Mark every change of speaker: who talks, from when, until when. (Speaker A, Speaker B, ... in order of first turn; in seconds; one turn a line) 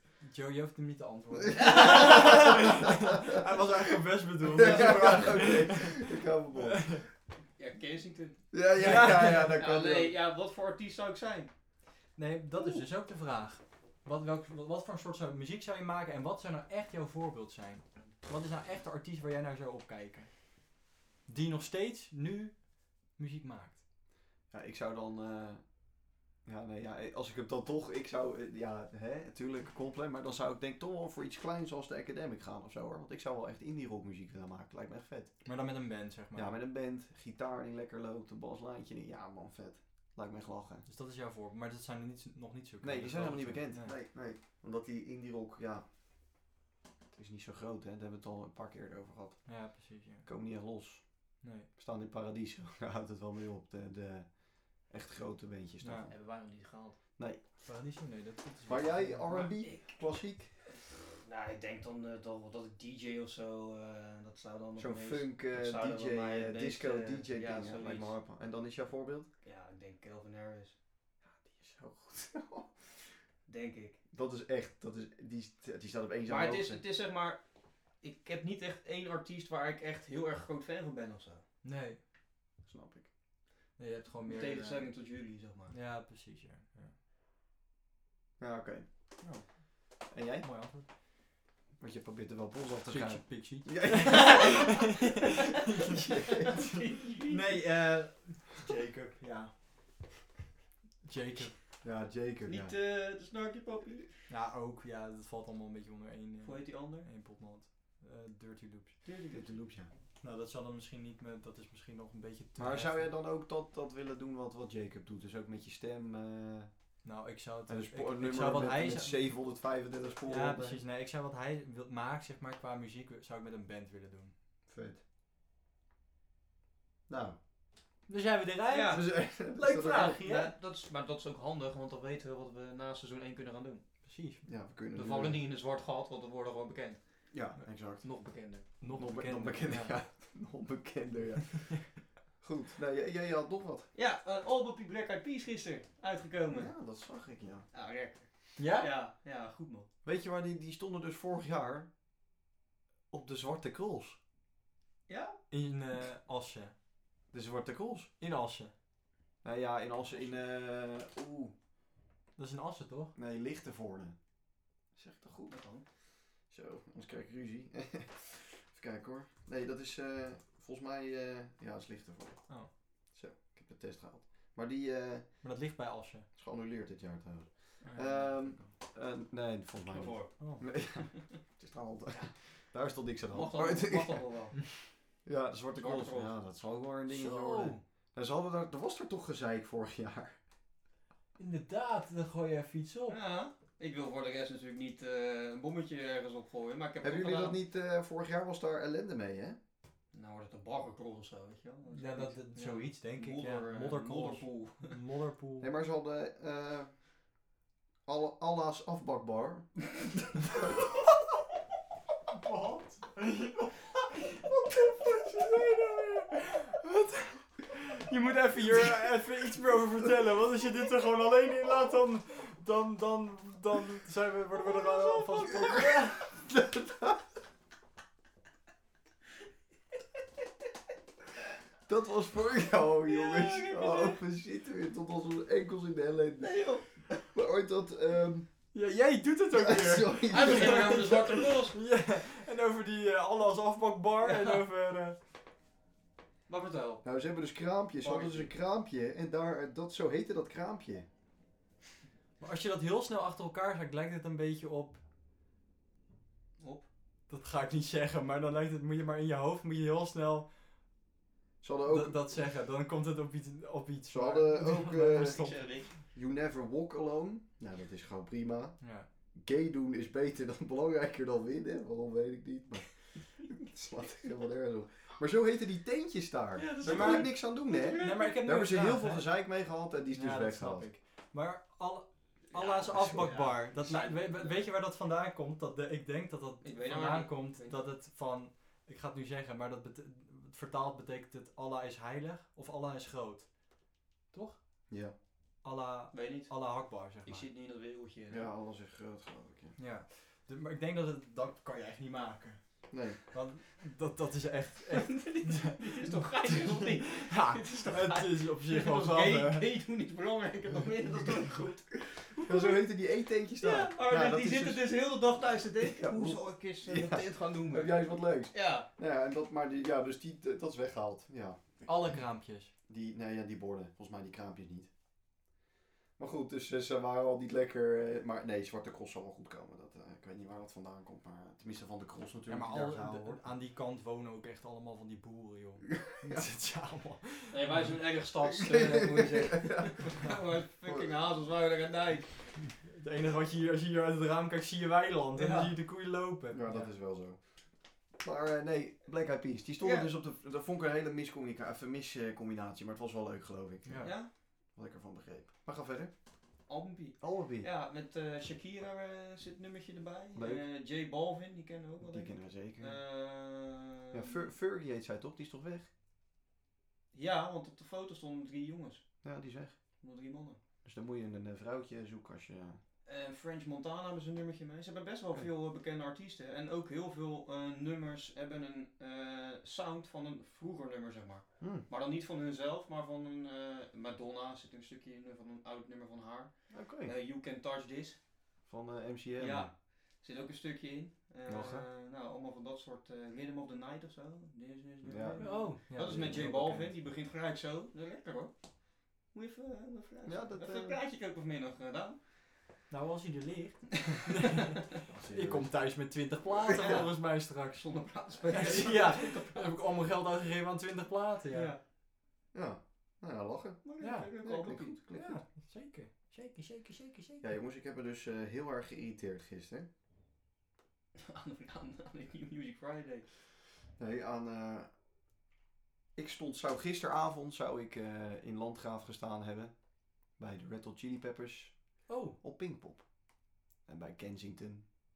Speaker A: 0.2-6.1
Speaker B: 1.5-3.4
Speaker C: 1.6-2.5
Speaker B: 4.5-7.0
Speaker A: 6.6-7.0
Speaker C: 7.5-8.4
Speaker B: 8.5-10.1
Speaker A: 8.8-9.6
Speaker C: 9.3-11.5
Speaker A: 12.2-20.6
Speaker A: 21.2-23.8
Speaker B: 24.5-25.7
Speaker B: 26.4-35.4
Speaker A: 35.4-36.5
Speaker B: 36.3-40.8
Speaker A: 40.9-43.9
Speaker B: 42.8-45.8
Speaker B: 47.1-49.5
Speaker A: 49.5-50.3
Speaker B: 50.2-51.0
Speaker A: 51.4-51.7
Speaker B: 51.8-56.1
Speaker A: 55.8-56.1
Speaker C: 56.1-57.0
Speaker A: 57.6-59.4
Speaker B: 58.6-60.5
Speaker C: 59.3-60.0
Speaker C: 60.9-68.1
Speaker B: 64.8-69.3
Speaker C: 69.4-70.7
Speaker B: 71.2-72.8
Speaker C: 73.5-74.0
Speaker B: 74.1-76.8
Speaker C: 76.2-77.4
Speaker C: 77.9-81.4
Speaker A: 81.6-82.0
Speaker B: 82.6-83.1
Speaker A: 83.8-84.9
Speaker C: 84.2-85.8
Speaker A: 85.7-87.0
Speaker B: 88.4-88.8
Speaker A: 89.2-89.5
Speaker B: 90.1-90.5
Speaker A: 90.4-90.8
Speaker B: 91.8-95.0
Speaker A: 92.9-99.5
Speaker C: 94.1-94.7
Speaker B: 95.9-96.6
Speaker C: 96.4-97.6
Speaker A: 101.0-101.5
Speaker B: 101.8-102.7
Speaker C: 102.4-104.3
Speaker A: 104.3-109.0
Speaker C: 106.4-107.1
Speaker C: 109.0-109.5
Speaker B: 109.3-109.9
Speaker A: 110.2-113.1
Speaker B: 112.6-116.7
Speaker A: 117.0-119.2
Speaker B: 117.7-120.8
Speaker A: 120.2-124.3
Speaker B: 124.7-125.0
Speaker B: 127.1-127.4
Speaker A: 128.1-130.5
Speaker C: 128.7-129.0
Speaker B: 128.9-130.2
Speaker C: 129.9-133.8
Speaker A: 134.0-134.4
Speaker B: 134.4-135.4
Speaker C: 134.9-137.0
Speaker B: 137.3-138.1
Speaker C: 138.0-138.7
Speaker A: 138.8-139.9
Speaker B: 138.9-143.9
Speaker C: 143.9-146.7
Speaker B: 146.5-147.7
Speaker C: 147.7-149.9
Speaker A: 148.6-148.9
Speaker B: 150.0-151.9
Speaker B: 153.1-154.2
Speaker C: 155.1-155.4
Speaker A: 155.5-156.7
Speaker B: 157.3-158.1
Speaker A: 158.2-158.7
Speaker B: 159.4-161.5
Speaker A: 162.3-163.1
Speaker B: 163.2-164.2
Speaker B: 164.9-165.6
Speaker C: 165.5-165.8
Speaker B: 166.5-172.5
Speaker B: 173.1-175.4
Speaker A: 175.4-176.3
Speaker B: 176.3-184.2
Speaker C: 177.8-178.1
Speaker A: 177.8-178.3
Speaker C: 179.9-180.3
Speaker A: 180.4-180.6
Speaker C: 183.3-184.6
Speaker B: 185.2-190.3
Speaker C: 185.8-186.3
Speaker A: 187.1-187.8
Speaker A: 191.4-193.2
Speaker C: 193.1-197.6
Speaker B: 197.0-199.6
Speaker C: 200.1-204.9
Speaker A: 201.9-205.7
Speaker B: 205.6-207.0
Speaker B: 208.1-209.7
Speaker A: 212.3-226.3
Speaker C: 224.7-225.8
Speaker B: 225.7-227.2
Speaker B: 231.8-238.5
Speaker C: 233.1-234.2
Speaker C: 236.4-236.9
Speaker A: 238.7-245.2
Speaker B: 239.5-241.4
Speaker C: 240.3-241.8
Speaker C: 244.2-244.6
Speaker C: 246.5-247.0
Speaker B: 247.0-251.1
Speaker C: 248.0-248.5
Speaker A: 252.4-255.0
Speaker C: 256.6-256.9
Speaker A: 257.3-260.5
Speaker B: 261.6-262.2
Speaker A: 261.9-265.7
Speaker B: 264.1-265.5
Speaker C: 265.1-265.9
Speaker B: 266.0-268.8
Speaker A: 268.8-269.1
Speaker B: 269.3-280.9
Speaker C: 276.6-278.4
Speaker A: 276.8-279.3
Speaker A: 280.1-293.5
Speaker C: 282.5-284.6
Speaker B: 283.0-283.3
Speaker C: 286.6-287.9
Speaker A: 294.3-294.6
Speaker B: 294.9-295.1
Speaker A: 295.6-297.5
Speaker C: 296.1-298.5
Speaker B: 298.3-299.8
Speaker A: 299.8-302.6
Speaker B: 302.9-303.2
Speaker A: 303.3-309.6
Speaker C: 304.9-312.8
Speaker B: 312.3-314.8
Speaker C: 313.6-318.9
Speaker B: 315.8-322.2
Speaker A: 321.9-322.7
Speaker B: 322.9-324.9
Speaker B: 326.2-333.4
Speaker A: 332.5-338.0
Speaker B: 336.2-336.5
Speaker C: 337.5-342.6
Speaker B: 338.4-340.1
Speaker A: 342.8-346.9
Speaker C: 345.3-345.7
Speaker B: 346.5-347.6
Speaker B: 348.2-356.1
Speaker C: 349.8-350.1
Speaker A: 353.8-354.1
Speaker C: 354.0-354.3
Speaker C: 356.7-364.5
Speaker B: 357.2-357.7
Speaker B: 360.3-360.6
Speaker B: 362.0-363.0
Speaker B: 364.1-365.9
Speaker C: 367.1-369.0
Speaker B: 369.2-369.8
Speaker C: 370.0-370.6
Speaker B: 370.8-372.8
Speaker C: 373.1-388.2
Speaker B: 381.6-381.9
Speaker B: 386.7-387.1
Speaker B: 388.7-389.7
Speaker C: 389.4-402.2
Speaker B: 391.5-391.9
Speaker B: 395.0-396.6
Speaker A: 395.4-396.9
Speaker B: 400.2-401.0
Speaker A: 402.9-407.8
Speaker B: 405.1-405.7
Speaker C: 406.5-409.7
Speaker A: 408.5-411.7
Speaker C: 411.5-411.8
Speaker B: 412.5-413.8
Speaker C: 413.8-415.0
Speaker A: 414.0-414.3
Speaker B: 414.4-415.4
Speaker A: 415.1-417.4
Speaker B: 417.4-419.9
Speaker C: 421.1-423.2
Speaker B: 424.0-424.9
Speaker B: 426.1-429.7
Speaker B: 430.4-433.1
Speaker A: 432.1-432.4
Speaker B: 433.9-434.9